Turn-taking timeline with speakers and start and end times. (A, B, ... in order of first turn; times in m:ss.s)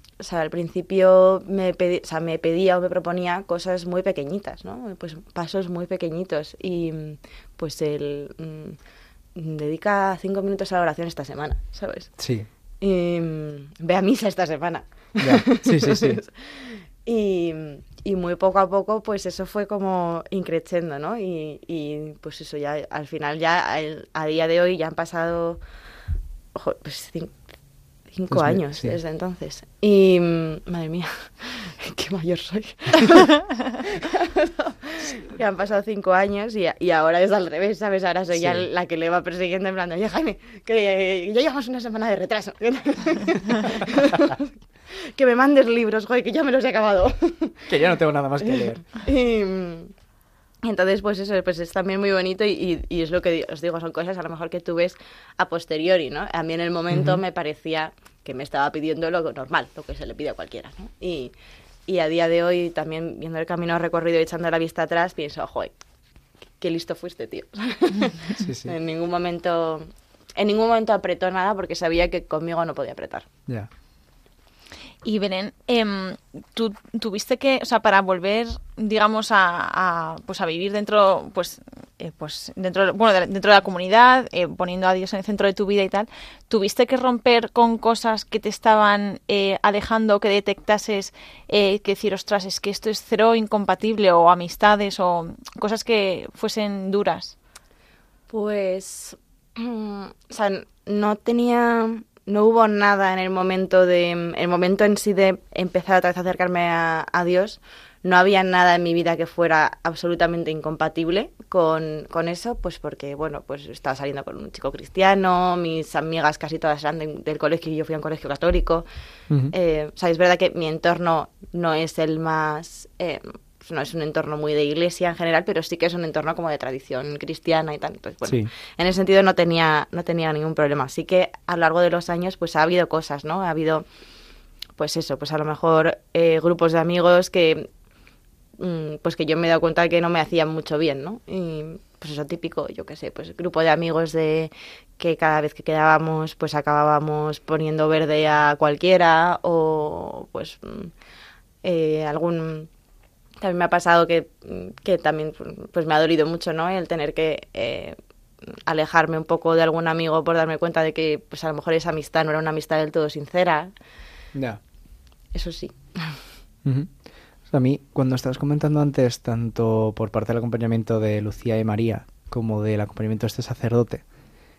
0:00.2-0:08.8 A
0:09.4-0:12.2 A
0:12.2-0:12.5 B
0:12.8-0:25.6 A
0:15.2-0:16.2 B
0:26.6-0:27.4 A
0:28.1-0:47.7 A
0:28.3-0:29.0 B
0:38.3-0:38.7 B
0:47.7-0:48.9 B
0:48.5-0:49.9 A
0:50.6-1:01.3 A
0:56.9-0:57.2 B
1:01.9-1:05.7 A
1:06.6-1:13.3 A
1:08.4-1:08.7 B
1:15.0-1:37.4 C
1:38.3-1:58.8 A
1:59.5-2:13.9 A
2:08.2-2:08.5 B
2:14.8-2:17.7 A
2:18.6-2:30.9 A
2:31.6-2:32.7 A
2:33.4-2:38.0 A
2:38.7-2:43.7 A
2:44.3-2:44.6 B
2:45.3-2:46.2 A
2:46.6-2:46.9 B
2:47.5-2:54.0 B